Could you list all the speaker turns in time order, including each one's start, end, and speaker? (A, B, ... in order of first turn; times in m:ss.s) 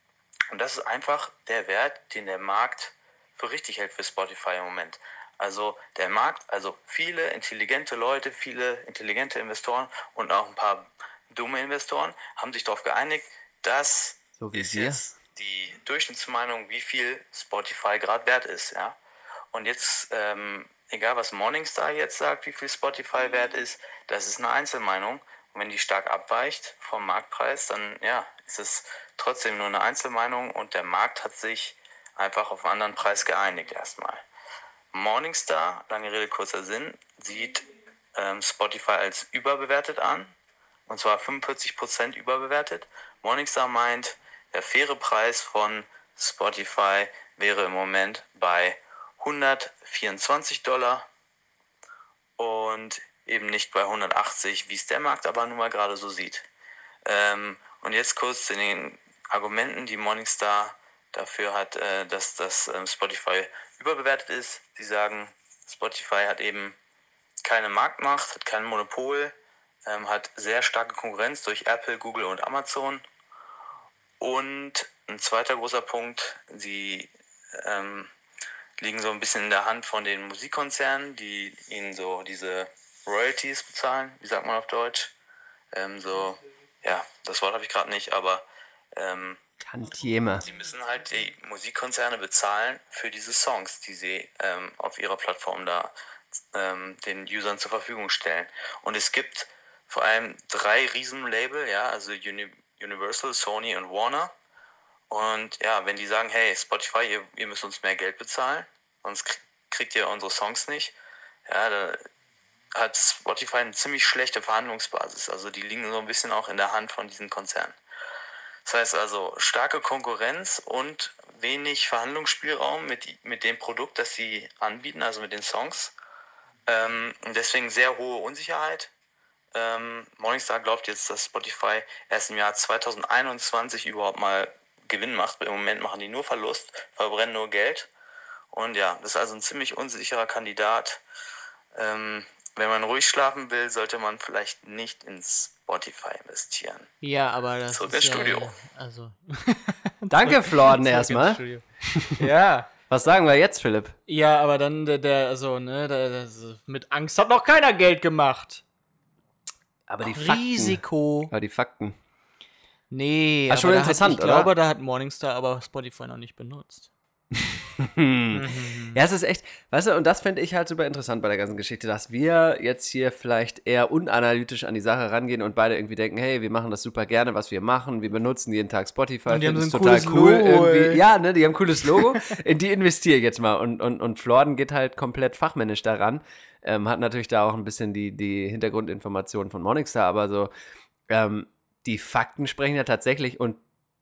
0:00.5-0:19.0 A
0:14.4-0:15.0 B
0:19.5-0:34.2 A
0:34.9-0:40.3 A
0:40.9-0:51.1 A
0:52.4-0:56.4 A
0:57.0-1:06.8 A
1:07.4-1:09.3 A
1:09.9-1:13.0 A
1:14.2-1:18.1 A
1:18.8-1:25.1 A
1:25.7-1:28.4 A
1:29.0-1:29.4 A
1:29.6-1:30.4 B
1:30.4-1:35.9 A
1:36.5-1:44.3 A
1:45.1-1:50.9 A
1:51.4-1:52.0 A
1:52.7-1:57.8 A
1:58.6-2:05.9 A
2:06.7-2:08.9 A
2:09.5-2:17.9 A
2:18.5-2:21.0 A
2:21.7-2:26.9 A
2:27.0-2:32.7 C
2:27.7-2:28.6 A
2:30.1-2:32.2 B
2:32.9-2:34.0 B
2:34.1-2:38.6 C
2:39.9-2:42.0 B
2:40.0-2:41.3 C
2:42.9-2:46.9 C
2:43.5-2:44.5 B
2:47.8-3:10.5 B
2:48.3-2:49.0 C
2:59.3-3:01.0 C
3:11.1-3:13.6 B